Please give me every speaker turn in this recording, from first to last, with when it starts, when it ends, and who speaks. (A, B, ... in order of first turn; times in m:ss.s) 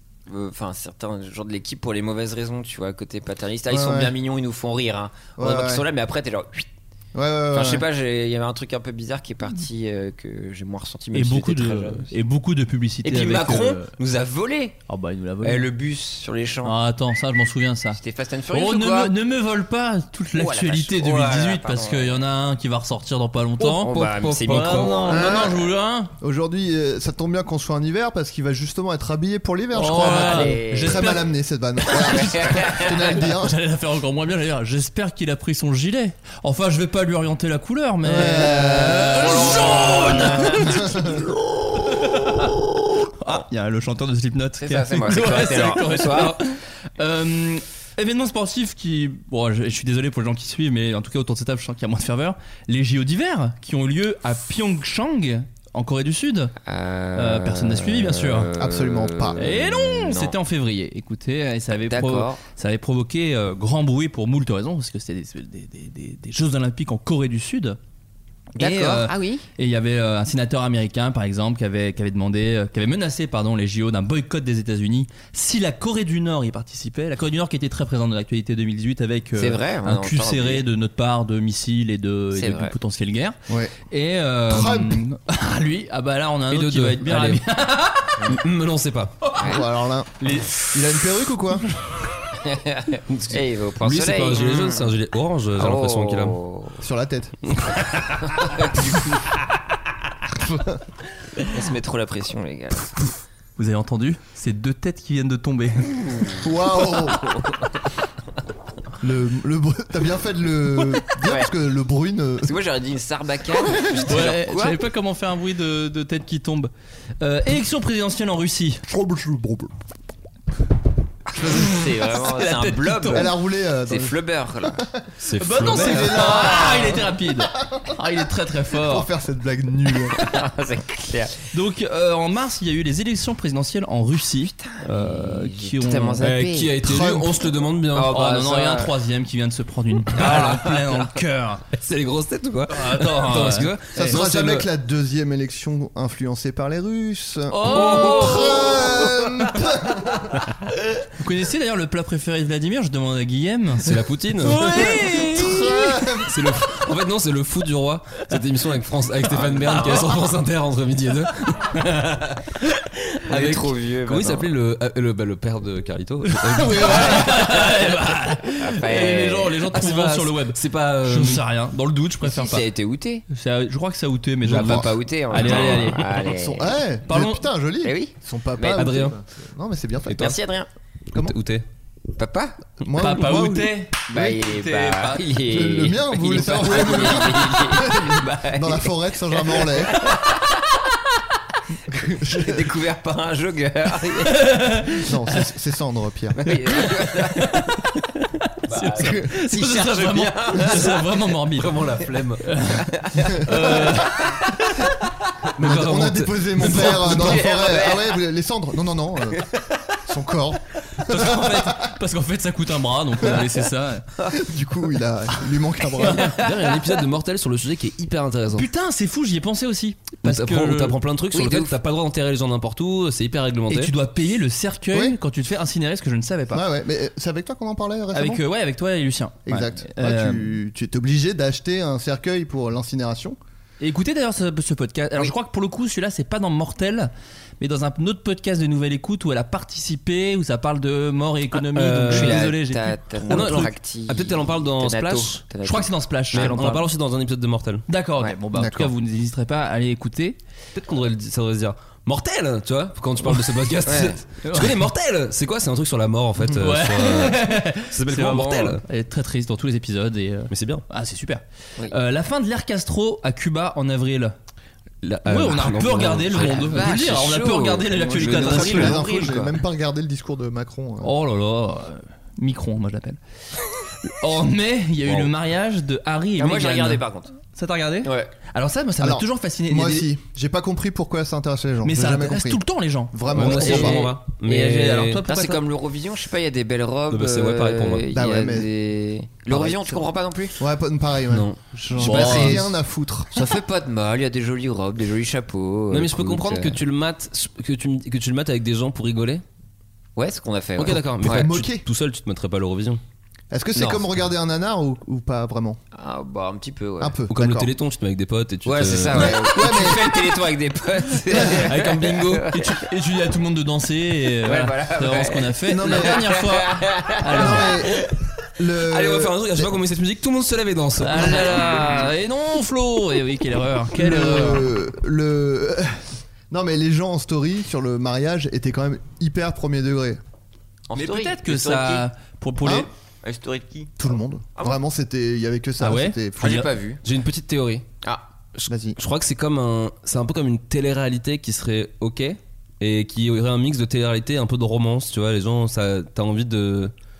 0:00.3-0:06.7 A
0:03.7-0:04.1 B
0:05.4-0:05.8 B
0:07.1-0:07.8 B
0:07.5-0:12.1 A
0:11.1-0:13.9 C
0:13.0-0:14.8 A
0:14.9-0:15.7 C
0:15.4-0:16.8 A
0:16.6-0:18.0 C
0:17.9-0:19.1 A
0:18.5-0:23.9 C
0:20.3-0:22.2 A
0:23.6-0:25.6 A
0:23.8-0:25.2 D
0:24.4-0:26.1 C
0:25.1-0:25.6 B
0:26.2-0:33.6 B
0:29.7-0:31.3 C
0:29.9-0:31.1 A
0:31.8-0:41.1 C
0:32.1-0:33.0 A
0:38.0-0:41.2 B
0:38.5-0:41.2 A
0:41.8-0:42.5 C
0:43.2-0:56.5 C
0:44.6-0:46.4 A
0:56.6-1:00.4 A
0:57.1-0:58.5 C
0:58.6-0:59.4 B
0:59.4-1:07.8 C
1:01.9-1:02.4 A
1:08.5-1:23.4 C
1:08.6-1:09.4 A
1:19.4-1:20.6 A
1:22.3-1:22.7 A
1:23.5-1:23.7 B
1:23.9-1:28.2 C
1:24.5-1:25.0 B
1:26.5-1:27.4 D
1:28.3-1:29.1 D
1:29.2-1:29.5 C
1:29.4-1:29.6 A
1:29.4-1:31.7 B
1:30.2-1:30.6 C
1:32.3-1:34.9 A
1:33.1-1:36.4 D
1:35.5-1:36.8 A
1:36.8-1:37.4 B
1:38.3-1:39.2 A
1:41.5-1:42.9 A
1:43.6-1:46.0 C
1:46.1-1:46.4 A
1:46.4-1:47.3 B
1:47.2-1:47.6 A
1:49.0-1:52.6 B
1:51.2-1:51.5 A
1:52.4-1:54.8 A
1:54.1-1:58.8 C
1:58.9-1:59.7 B
2:01.4-2:04.8 A
2:01.4-2:01.6 B
2:01.5-2:03.3 C
2:03.1-2:05.0 B
2:05.2-2:06.4 D
2:05.4-2:09.1 C
2:05.6-2:07.9 B
2:08.7-2:10.2 B
2:10.2-2:11.3 A
2:11.5-2:16.3 C
2:14.6-2:16.8 A
2:16.2-2:18.2 D
2:16.8-2:17.5 B
2:17.9-2:18.9 A
2:18.0-2:21.6 C
2:20.2-2:21.1 A
2:21.7-2:24.7 D
2:22.7-2:24.2 C
2:23.9-2:30.3 B
2:27.5-2:29.0 C
2:31.2-2:36.2 C
2:33.8-2:34.8 D
2:34.6-2:36.3 B
2:36.2-2:42.4 D
2:39.3-2:40.1 A
2:43.1-2:43.6 C
2:43.3-2:44.5 A
2:44.0-2:47.3 D
2:46.3-2:52.6 C
2:46.8-2:48.0 A
2:48.6-2:49.7 A
2:49.7-2:51.4 D
2:52.2-2:53.2 A
2:53.3-2:56.1 C
2:54.4-3:00.4 B
2:54.5-2:56.8 A
2:57.1-2:57.5 C
2:57.8-2:59.0 A
2:58.7-2:59.2 D
3:00.1-3:00.4 D
3:00.2-3:00.7 A
3:01.2-3:01.6 D
3:02.2-3:02.6 A
3:02.8-3:04.4 B
3:03.0-3:05.2 C
3:04.1-3:10.8 A
3:05.4-3:10.0 B
3:11.9-3:12.7 B
3:12.2-3:14.5 A
3:14.3-3:15.1 C
3:15.0-3:16.4 B
3:16.4-3:17.7 A
3:16.4-3:18.0 C
3:18.6-3:21.8 C
3:18.7-3:21.1 A
3:21.5-3:22.4 D
3:22.4-3:24.9 C
3:23.1-3:24.0 A
3:25.5-3:27.2 D
3:25.6-3:29.4 B
3:26.8-3:28.2 A
3:30.0-3:31.9 B
3:31.0-3:34.1 C
3:34.3-3:36.4 B
3:36.0-3:36.4 C
3:36.4-3:38.7 D
3:38.5-3:41.0 C
3:40.2-3:43.9 D
3:41.3-3:41.7 A
3:43.7-3:46.6 C
3:44.9-3:45.2 B
3:46.5-3:48.4 B
3:48.1-3:50.6 C
3:49.4-3:53.4 B
3:53.8-4:03.7 C
4:01.7-4:02.5 D
4:02.1-4:06.6 A
4:03.2-4:05.4 D
4:05.6-4:06.9 C
4:06.3-4:07.8 D
4:07.9-4:10.4 C
4:08.5-4:08.9 B
4:10.7-4:18.8 D
4:13.8-4:14.2 A
4:14.4-4:14.8 C
4:16.5-4:24.4 C
4:20.5-4:20.8 D
4:25.0-4:27.1 D
4:25.2-4:29.4 C
4:26.3-4:29.4 A
4:28.2-4:31.1 B
4:31.0-4:33.2 C
4:34.0-4:40.1 C
4:36.4-4:37.3 A
4:38.0-4:38.3 A
4:39.0-4:44.1 B
4:41.8-4:45.6 C
4:43.3-4:45.2 D
4:43.6-4:43.9 A
4:45.2-4:50.6 A
4:47.1-4:48.0 D
4:48.1-4:48.7 B
4:49.5-4:50.0 B
4:50.6-4:53.6 B
4:51.3-4:51.6 D
4:51.9-4:52.6 C
4:51.9-4:52.7 A
4:53.3-4:56.8 A
4:55.9-4:59.4 D
5:00.2-5:01.5 A
5:00.8-5:03.0 D
5:01.2-5:01.8 B
5:03.5-5:05.8 B
5:03.7-5:04.0 A
5:05.9-5:07.2 A
5:07.0-5:07.7 B
5:07.3-5:09.5 D
5:08.6-5:12.8 A
5:09.1-5:10.3 B
5:11.4-5:17.8 C
5:14.4-5:18.0 A
5:15.7-5:16.2 B
5:17.3-5:19.7 B
5:18.8-5:21.5 D
5:21.0-5:24.7 C
5:21.3-5:22.0 A
5:23.9-5:30.2 B
5:30.9-5:32.1 A
5:30.9-5:32.9 C
5:32.6-5:32.9 B
5:33.2-5:34.0 A
5:34.0-5:36.6 B
5:35.8-5:36.7 C
5:36.4-5:37.0 A
5:37.0-5:37.8 D
5:38.5-5:46.9 D
5:38.7-5:39.0 B